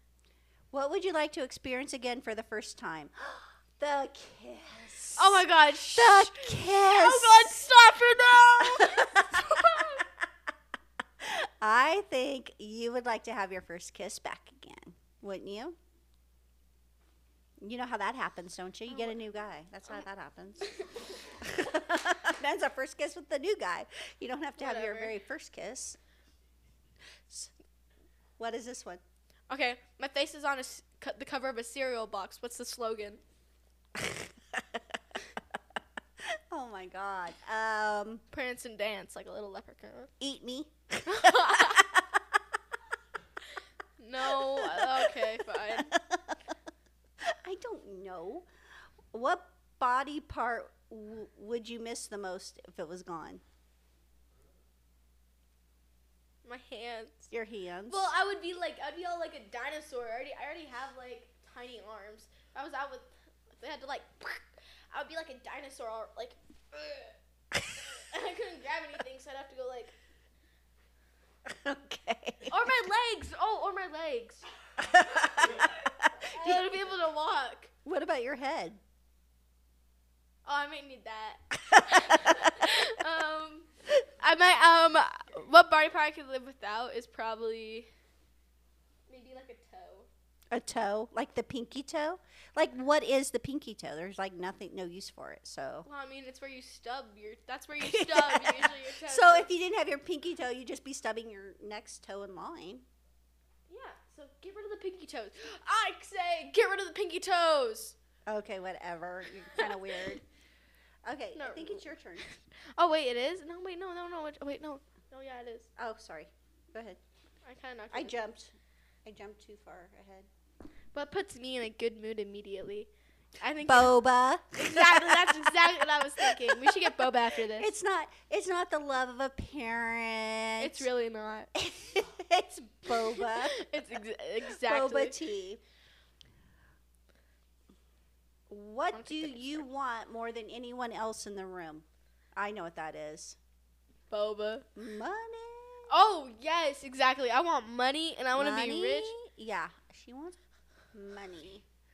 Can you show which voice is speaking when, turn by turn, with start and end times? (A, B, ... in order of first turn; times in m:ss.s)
0:00.7-0:07.6 A
0:05.2-0:10.0 B
0:08.6-0:10.0 A
0:11.2-0:15.8 A
0:17.6-0:20.8 A
0:21.4-0:26.0 A
0:24.6-0:25.1 B
0:28.4-0:29.0 A
0:29.5-0:33.2 B
0:34.0-0:34.8 A
0:36.5-0:38.2 A
0:38.3-0:40.1 B
0:40.2-0:42.2 A
0:41.0-0:41.8 B
0:44.0-0:45.9 B
0:44.2-0:46.4 A
0:47.2-0:48.5 A
0:49.1-0:53.4 A
0:56.4-0:57.3 B
0:57.3-0:58.1 A
0:57.9-1:07.1 B
1:07.9-1:09.9 B
1:11.4-1:12.6 A
1:12.5-1:14.4 B
1:14.8-1:16.8 A
1:16.3-1:17.7 B
1:17.8-1:18.8 A
1:20.4-1:23.7 B
1:21.7-1:22.5 A
1:24.2-1:27.9 B
1:29.1-1:30.1 B
1:30.5-1:35.9 A
1:35.8-1:39.5 B
1:37.8-1:42.8 A
1:43.7-1:47.9 B
1:48.3-1:50.2 A
1:51.0-1:52.2 A
1:51.3-1:55.7 B
1:55.8-1:57.0 A
1:57.4-1:58.2 B
1:57.9-1:58.5 A
1:59.0-2:00.3 A
2:00.9-2:02.9 B
2:03.4-2:04.0 B
2:03.6-2:06.8 A
2:04.5-2:07.7 B
2:07.6-2:10.8 A
2:10.6-2:11.5 B
2:11.5-2:13.6 A
2:13.2-2:15.2 B
2:14.5-2:15.6 A
2:18.5-2:21.8 A
2:18.9-2:19.5 B
2:22.4-2:23.4 A
2:24.1-2:24.6 B
2:24.8-2:25.9 A
2:25.9-2:29.1 B
2:28.4-2:30.4 A
2:30.9-2:31.6 A